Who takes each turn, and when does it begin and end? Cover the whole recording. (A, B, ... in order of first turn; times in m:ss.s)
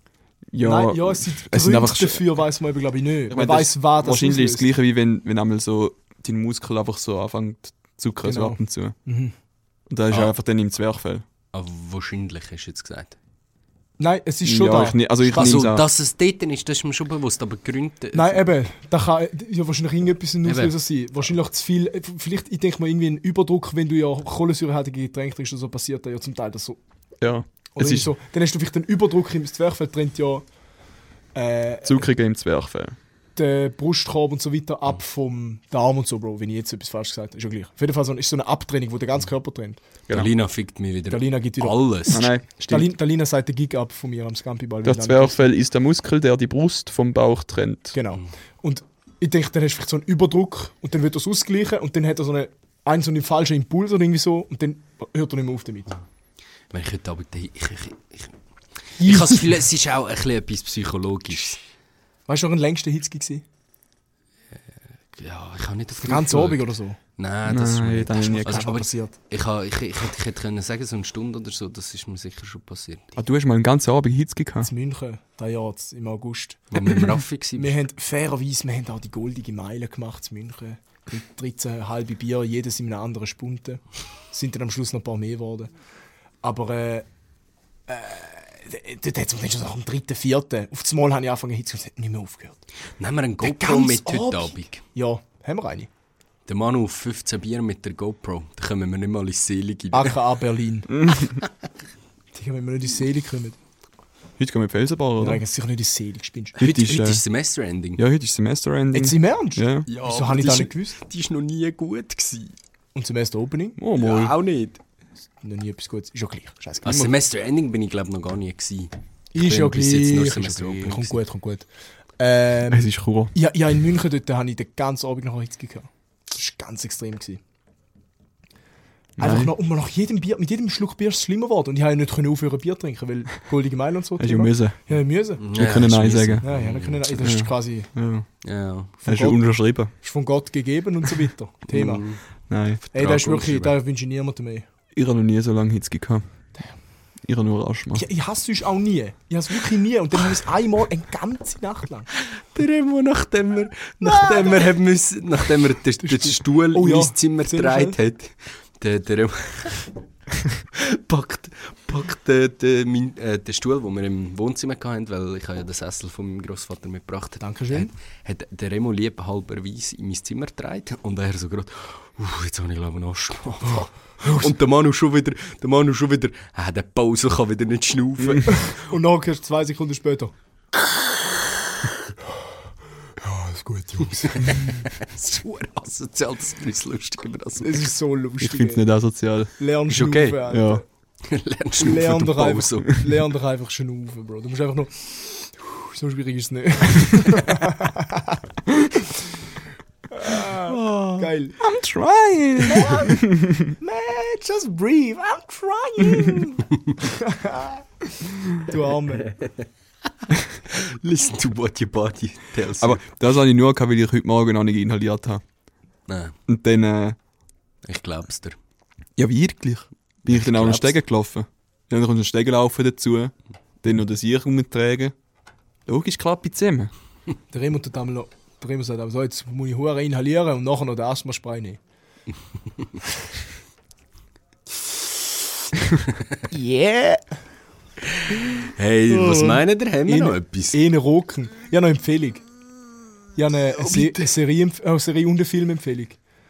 0:00.5-0:02.2 A
0:00.6-0:04.7 B
0:03.3-0:09.0 A
0:08.2-0:09.3 B
0:09.9-0:11.2 A
0:11.5-0:13.2 C
0:14.0-0:15.6 B
0:14.4-0:15.8 A
0:15.3-0:18.4 C
0:18.1-0:26.8 B
0:20.4-0:20.7 C
0:27.2-0:28.1 A
0:27.7-0:30.4 B
0:31.3-0:32.1 B
0:31.8-0:33.0 A
0:33.4-0:39.8 B
0:40.1-0:42.3 C
0:41.1-0:45.5 B
0:42.1-0:42.9 A
0:44.8-0:48.0 A
0:47.9-0:55.9 B
0:56.7-1:01.6 C
0:59.0-0:59.5 B
1:02.3-1:03.4 B
1:05.1-1:13.2 C
1:06.0-1:07.0 B
1:07.4-1:08.7 A
1:08.3-1:09.1 B
1:13.2-1:14.7 A
1:14.6-1:25.7 B
1:16.7-1:17.8 C
1:26.4-1:27.1 B
1:27.9-1:32.6 B
1:33.0-1:34.8 C
1:33.4-1:35.9 B
1:36.5-1:40.2 C
1:39.9-1:40.9 B
1:40.9-1:41.4 A
1:42.3-1:43.6 B
1:44.4-1:45.4 A
1:45.2-1:46.6 B
1:46.6-1:47.2 A
1:46.6-1:48.0 C
1:48.0-1:49.9 A
1:48.9-1:51.0 B
1:49.9-1:52.5 C
1:52.9-1:53.8 B
1:53.8-1:54.4 A
1:54.0-1:54.8 C
1:55.4-1:57.1 B
1:56.8-2:01.2 C
1:59.3-2:01.7 B
2:02.2-2:07.4 B
2:02.7-2:03.3 A
2:09.2-2:09.5 A
2:09.2-2:15.4 B
2:14.2-2:14.8 A
2:15.4-2:17.3 C
2:15.5-2:16.5 A
2:16.4-2:17.9 B
2:17.2-2:18.3 A
2:18.4-2:18.9 C
2:19.0-2:22.0 B
2:19.0-2:19.9 A
2:21.7-2:22.2 C
2:22.5-2:22.9 A
2:22.9-2:24.6 B
2:22.9-2:23.7 C
2:24.9-2:26.3 A
2:27.2-2:28.0 A
2:27.9-2:32.1 B
2:32.2-2:39.9 C
2:34.0-2:34.6 B
2:36.0-2:38.0 B
2:40.7-2:58.9 C
2:47.4-2:47.9 B
2:54.2-2:54.5 B
2:58.5-3:00.3 B
3:03.2-3:04.9 B
3:04.0-3:07.9 C
3:07.6-3:08.9 B
3:08.4-3:09.5 A
3:09.6-3:10.8 B
3:09.9-3:10.5 C
3:10.5-3:10.8 A
3:11.2-3:13.0 C
3:11.8-3:19.4 B
3:20.1-3:21.6 B
3:20.6-3:21.3 C
3:21.6-3:23.7 A
3:22.6-3:29.3 B
3:30.5-3:33.0 C
3:32.8-3:35.4 A
3:36.1-3:36.3 C
3:36.5-3:37.2 A
3:37.8-3:38.6 C
3:39.2-3:45.2 A
3:40.3-3:40.9 C
3:45.9-3:46.9 A
3:47.5-3:51.8 B
3:56.5-3:57.2 B
3:58.3-4:00.8 C
3:59.1-4:02.4 B
4:03.4-4:06.2 B
4:03.9-4:04.2 C